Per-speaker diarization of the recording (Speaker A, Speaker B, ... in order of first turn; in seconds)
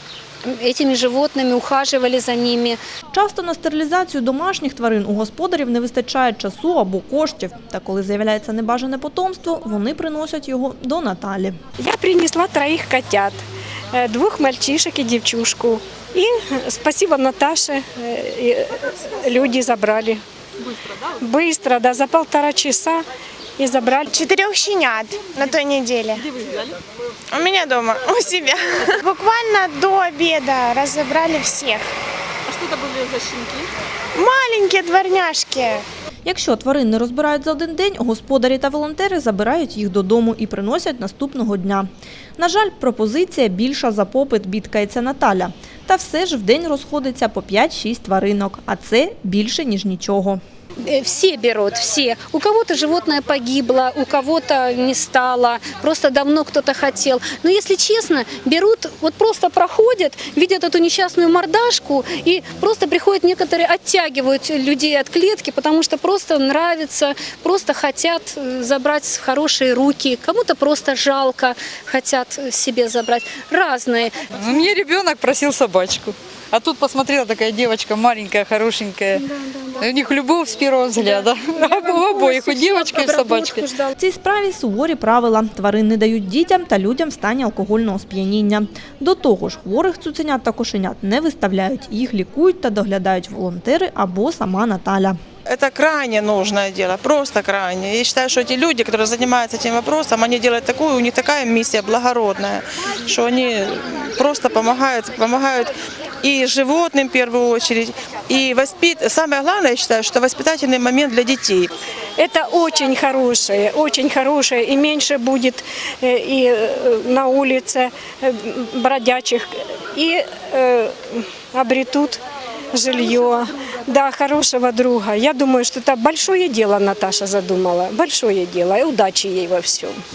Speaker A: 0.4-2.8, 50.8-74.2, 81.0-83.9
Speaker B: 3.1-11.6, 36.2-50.4, 84.0-95.2
Speaker C: 11.8-13.4, 13.9-20.2, 21.0-23.0, 23.6-24.1, 112.2-122.2, 122.7-130.0
Speaker D: 24.1-26.7, 27.3-31.8, 34.1-35.8
Speaker E: 74.4-79.3, 79.8-83.6
Speaker F: 95.5-111.7